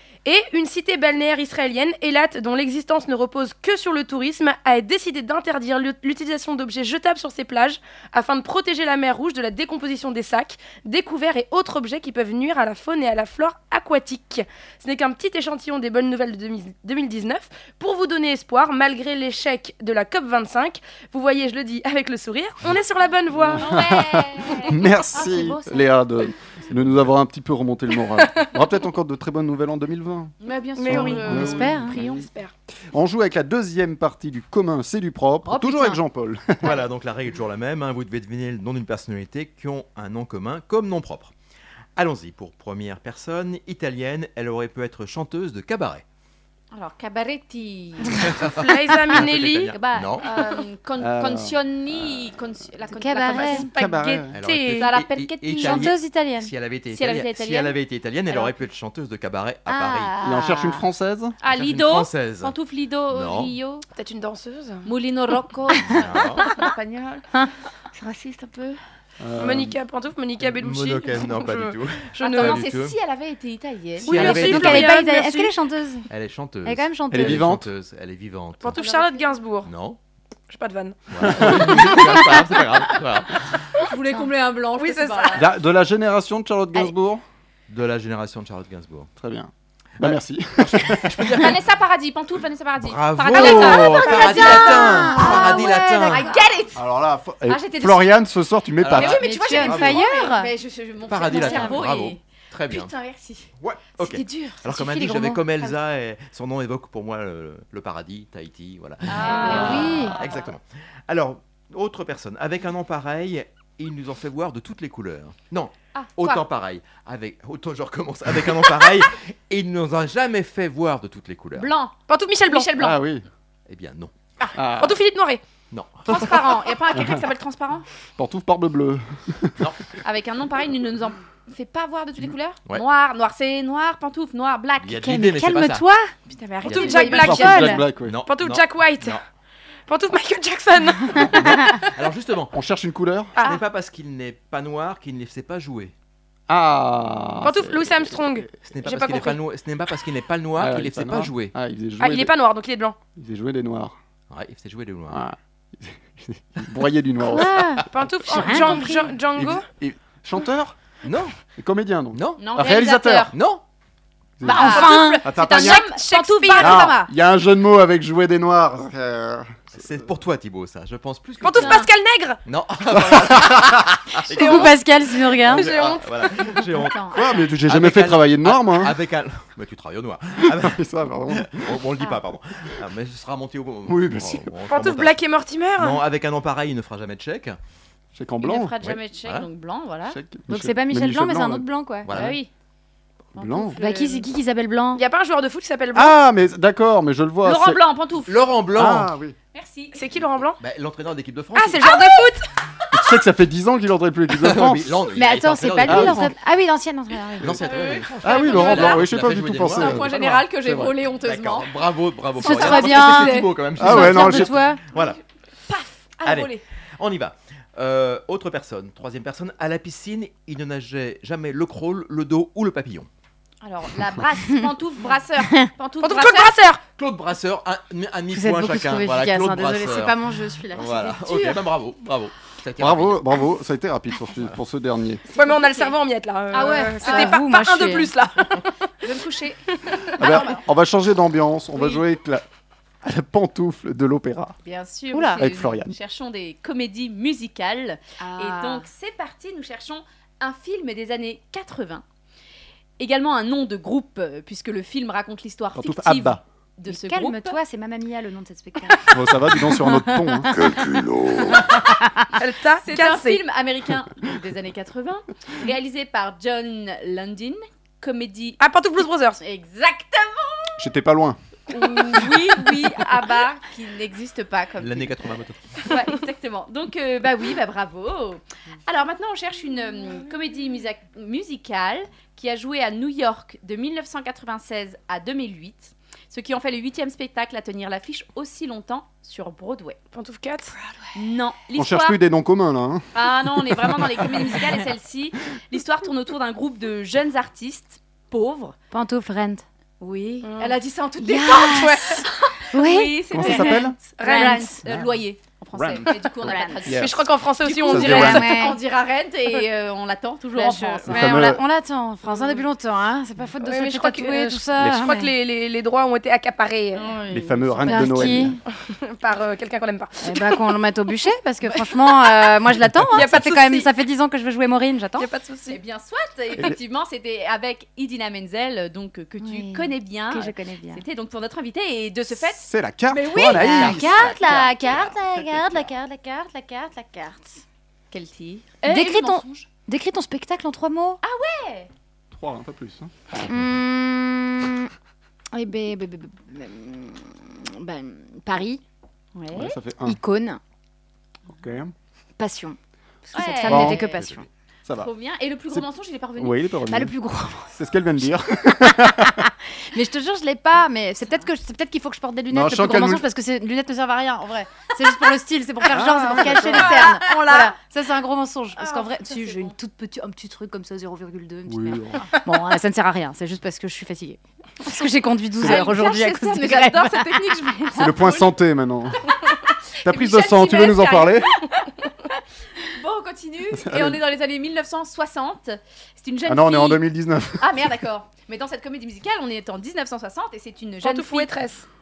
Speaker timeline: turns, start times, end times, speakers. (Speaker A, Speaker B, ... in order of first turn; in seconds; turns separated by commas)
Speaker A: 0.2-23.7, Speaker B: 23.3-30.3, Speaker C: 23.6-25.6, Speaker A: 28.2-28.5, Speaker C: 30.4-32.0, Speaker A: 30.8-32.5, Speaker B: 30.9-32.2, Speaker D: 31.3-31.9, Speaker B: 32.9-36.8, Speaker D: 35.5-35.9, Speaker E: 36.6-41.3, Speaker E: 42.0-46.0, Speaker C: 46.7-48.3, Speaker E: 48.1-50.3, Speaker A: 48.4-49.7, Speaker C: 49.7-53.7, Speaker B: 51.0-52.0, Speaker D: 52.9-53.7, Speaker A: 53.3-54.9, Speaker B: 53.7-54.3, Speaker E: 54.3-60.1, Speaker C: 54.7-56.0, Speaker D: 55.5-56.5, Speaker C: 56.9-57.8, Speaker C: 58.3-58.6, Speaker C: 59.7-60.8, Speaker B: 60.2-61.4, Speaker C: 61.4-63.8, Speaker E: 61.5-62.5, Speaker E: 63.1-63.5, Speaker A: 63.9-64.9, Speaker C: 64.8-67.2, Speaker E: 65.9-66.5, Speaker C: 68.0-68.8, Speaker B: 69.2-69.8, Speaker A: 69.4-72.6, Speaker E: 70.4-73.0, Speaker C: 72.2-74.4, Speaker E: 74.0-75.0, Speaker A: 74.0-75.5, Speaker D: 74.2-76.1, Speaker E: 76.1-78.8, Speaker D: 76.6-77.5, Speaker B: 77.1-77.7, Speaker A: 78.6-79.7, Speaker C: 78.7-79.3, Speaker E: 79.6-80.0, Speaker A: 80.5-82.5, Speaker E: 81.1-83.4, Speaker B: 81.2-82.0, Speaker C: 83.8-85.5, Speaker A: 84.8-85.5, Speaker B: 85.3-87.2, Speaker E: 87.7-89.1, Speaker B: 89.2-91.5, Speaker E: 90.0-91.6, Speaker C: 91.3-96.8, Speaker E: 92.8-96.3, Speaker D: 93.3-96.4, Speaker B: 96.7-99.3, Speaker C: 97.5-98.2, Speaker E: 98.8-100.0, Speaker C: 98.9-104.5, Speaker D: 99.1-100.5, Speaker E: 101.1-102.9, Speaker D: 101.3-101.8, Speaker E: 103.6-121.7, Speaker D: 104.6-105.7, Speaker C: 109.0-110.5, Speaker D: 109.3-110.2, Speaker C: 115.9-116.4, Speaker C: 121.5-122.0, Speaker A: 122.1-122.7, Speaker C: 122.5-123.0, Speaker B: 122.8-123.2, Speaker E: 123.7-124.1, Speaker B: 124.5-125.0, Speaker A: 124.8-125.4, Speaker E: 125.7-126.5, Speaker C: 126.0-127.9, Speaker B: 128.2-129.7, Speaker C: 130.0-135.1, Speaker E: 134.8-135.8, Speaker D: 135.0-136.1, Speaker C: 136.3-137.8, Speaker E: 136.6-137.1, Speaker A: 136.6-139.2, Speaker B: 137.1-138.1, Speaker D: 137.2-137.8, Speaker E: 138.0-139.2, Speaker A: 139.9-141.9, Speaker B: 141.2-141.6, Speaker E: 141.8-142.6, Speaker B: 142.5-143.3, Speaker A: 143.3-143.6, Speaker E: 143.4-145.9, Speaker B: 146.5-148.5, Speaker A: 147.4-149.4, Speaker E: 148.7-151.5, Speaker B: 150.6-152.3, Speaker A: 152.0-153.0, Speaker B: 153.2-153.9, Speaker E: 154.3-155.2, Speaker B: 155.1-158.7, Speaker D: 157.3-159.1, Speaker A: 157.9-159.7, Speaker B: 159.3-160.8, Speaker E: 161.0-161.3, Speaker B: 161.6-163.3, Speaker E: 162.1-162.4, Speaker C: 162.4-163.3, Speaker E: 163.3-163.6, Speaker B: 164.4-165.8, Speaker C: 164.4-167.1, Speaker D: 164.4-165.2, Speaker A: 164.5-166.9, Speaker B: 166.6-169.6, Speaker E: 169.7-171.9, Speaker A: 171.4-172.4, Speaker C: 171.6-171.9, Speaker E: 172.4-174.8, Speaker B: 172.9-173.8, Speaker D: 174.3-175.7, Speaker A: 174.3-174.7, Speaker A: 175.3-176.6, Speaker E: 175.4-176.9, Speaker C: 176.7-177.5, Speaker B: 177.1-179.0, Speaker E: 177.6-185.2, Speaker B: 180.4-181.6, Speaker B: 183.9-184.5, Speaker A: 184.7-186.0, Speaker E: 185.8-187.6, Speaker B: 188.1-188.7, Speaker C: 188.4-190.2, Speaker E: 188.8-189.5, Speaker B: 190.1-191.7, Speaker D: 190.5-192.1, Speaker E: 192.1-192.4, Speaker C: 192.1-192.5, Speaker B: 193.3-193.8, Speaker C: 193.3-194.3, Speaker D: 193.7-195.0, Speaker A: 194.9-196.2, Speaker B: 195.9-197.8, Speaker C: 197.4-198.4, Speaker E: 198.2-199.1, Speaker B: 198.7-199.3, Speaker C: 199.5-200.0, Speaker A: 199.9-200.6, Speaker E: 200.6-202.2, Speaker A: 201.5-202.5, Speaker B: 202.9-205.1, Speaker E: 204.3-206.3, Speaker D: 205.1-207.6, Speaker B: 205.8-206.3, Speaker E: 207.4-210.3, Speaker C: 207.6-211.7, Speaker B: 208.2-211.1, Speaker E: 211.2-215.2, Speaker C: 212.4-213.5, Speaker D: 212.4-214.8, Speaker B: 213.8-214.6, Speaker C: 215.7-216.6, Speaker E: 216.2-223.1, Speaker C: 223.6-226.5, Speaker A: 226.0-226.8, Speaker E: 227.0-233.2, Speaker D: 228.3-231.1, Speaker C: 230.8-231.6, Speaker B: 232.8-235.2, Speaker C: 235.3-235.9, Speaker A: 235.3-239.1, Speaker C: 236.5-237.4, Speaker D: 236.6-238.1, Speaker C: 239.0-239.6, Speaker C: 240.2-240.6, Speaker B: 240.2-242.4, Speaker B: 243.0-244.6, Speaker C: 244.6-252.0, Speaker D: 245.1-245.4, Speaker B: 245.4-245.9, Speaker D: 248.2-248.8, Speaker C: 253.0-257.6, Speaker B: 255.7-256.4, Speaker D: 256.9-260.5, Speaker B: 259.1-261.7, Speaker A: 262.4-263.4, Speaker C: 262.8-268.6, Speaker A: 268.6-269.4, Speaker C: 269.4-270.9, Speaker B: 270.8-271.4, Speaker C: 271.7-275.2, Speaker E: 274.8-275.8, Speaker C: 275.8-290.0, Speaker A: 290.1-290.7, Speaker C: 291.1-292.2, Speaker B: 291.7-294.2, Speaker C: 293.1-298.8, Speaker D: 298.9-299.6, Speaker C: 300.0-311.5, Speaker A: 300.4-300.8, Speaker D: 301.2-304.8, Speaker B: 303.3-304.0, Speaker A: 304.2-304.7, Speaker B: 304.9-305.2, Speaker B: 305.7-307.2, Speaker D: 306.4-306.8, Speaker A: 306.9-308.5, Speaker B: 307.9-308.4, Speaker D: 307.9-308.8, Speaker D: 310.5-315.3, Speaker B: 311.1-311.6, Speaker A: 313.6-317.1, Speaker B: 314.8-315.1, Speaker C: 316.9-318.5, Speaker B: 317.3-318.6, Speaker D: 317.9-318.6, Speaker A: 318.8-320.6, Speaker D: 320.2-325.3, Speaker A: 323.1-323.9, Speaker A: 325.2-325.8, Speaker C: 325.7-334.9, Speaker D: 329.4-331.0, Speaker B: 332.4-334.4, Speaker D: 333.4-337.6, Speaker C: 338.1-339.7, Speaker D: 338.8-341.2, Speaker C: 341.2-341.9, Speaker B: 342.3-343.1, Speaker D: 343.4-344.9, Speaker D: 345.5-348.8, Speaker C: 349.3-349.8, Speaker B: 349.5-350.2, Speaker D: 350.0-350.6, Speaker B: 351.5-351.9, Speaker D: 352.4-354.5, Speaker C: 353.3-354.2, Speaker B: 353.6-354.0, Speaker E: 354.1-354.4, Speaker B: 354.9-355.1, Speaker C: 354.9-356.6, Speaker B: 355.7-357.1, Speaker D: 356.9-357.7, Speaker B: 357.7-359.5, Speaker D: 359.3-377.7, Speaker B: 362.5-363.2, Speaker B: 365.9-367.0, Speaker C: 366.1-367.8, Speaker C: 368.8-369.7, Speaker B: 371.7-372.2, Speaker B: 375.6-375.9, Speaker C: 375.6-378.6, Speaker B: 377.9-379.2, Speaker C: 379.3-381.7, Speaker B: 380.0-381.5, Speaker C: 382.8-391.6, Speaker B: 383.7-384.2, Speaker B: 386.4-387.7, Speaker A: 391.0-391.9